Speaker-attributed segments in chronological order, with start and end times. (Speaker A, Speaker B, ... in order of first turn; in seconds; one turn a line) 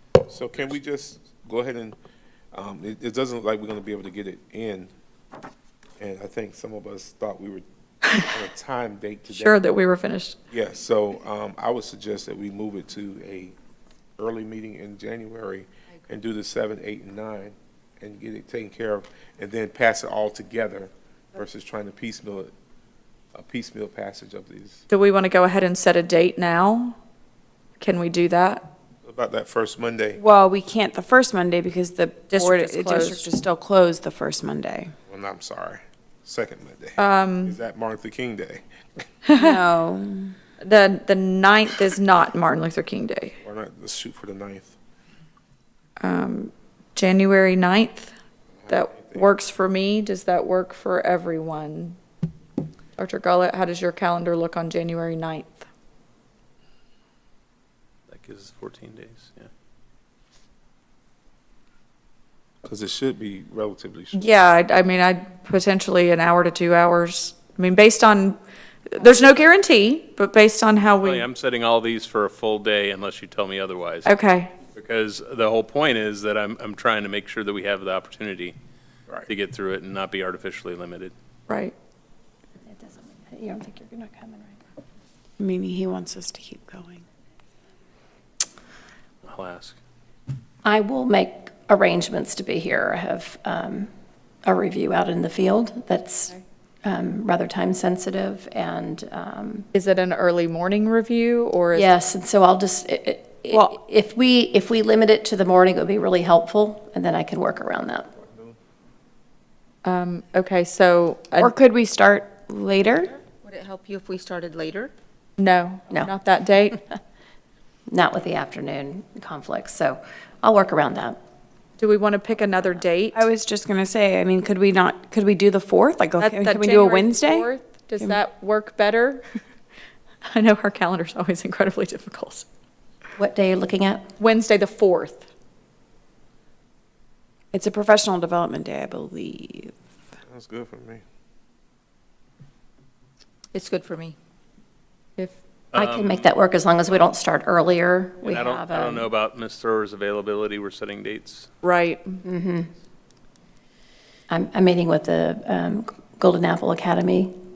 Speaker A: 0.3-2.0
Speaker B: 0.5-0.8
Speaker A: 2.5-4.9
Speaker A: 6.0-9.6
Speaker C: 9.3-10.4
Speaker A: 10.5-13.6
Speaker A: 14.2-22.5
Speaker A: 23.4-24.8
Speaker C: 24.9-27.0
Speaker C: 27.8-28.7
Speaker A: 29.0-30.2
Speaker D: 30.2-34.9
Speaker C: 32.3-33.2
Speaker A: 35.1-39.0
Speaker C: 37.0-37.6
Speaker C: 39.2-39.6
Speaker D: 39.3-40.3
Speaker C: 40.6-43.3
Speaker A: 43.4-44.7
Speaker C: 46.0-48.1
Speaker A: 48.6-49.3
Speaker C: 48.7-52.0
Speaker C: 53.0-55.7
Speaker B: 58.1-59.5
Speaker A: 62.6-64.2
Speaker C: 64.1-68.4
Speaker C: 68.9-71.2
Speaker B: 71.0-74.1
Speaker C: 74.0-74.5
Speaker B: 74.7-78.5
Speaker B: 79.2-81.1
Speaker C: 81.5-81.7
Speaker E: 82.7-84.6
Speaker D: 85.4-87.0
Speaker B: 89.2-89.8
Speaker E: 90.6-93.9
Speaker E: 94.5-99.7
Speaker C: 99.7-101.9
Speaker E: 101.7-108.1
Speaker D: 103.5-103.8
Speaker C: 109.8-111.5
Speaker D: 111.4-113.2
Speaker F: 113.5-114.9
Speaker C: 115.4-116.8
Speaker E: 117.9-121.2
Speaker C: 121.8-123.2
Speaker D: 123.1-127.5
Speaker C: 126.2-129.2
Speaker C: 130.2-132.4
Speaker E: 133.2-134.1
Speaker C: 134.2-135.2
Speaker D: 137.5-139.8
Speaker A: 140.2-141.0
Speaker F: 143.5-144.1
Speaker B: 145.7-146.3
Speaker E: 145.8-149.1
Speaker B: 148.2-151.4
Speaker C: 151.6-152.2
Speaker E: 152.2-152.7
Speaker E: 154.3-157.3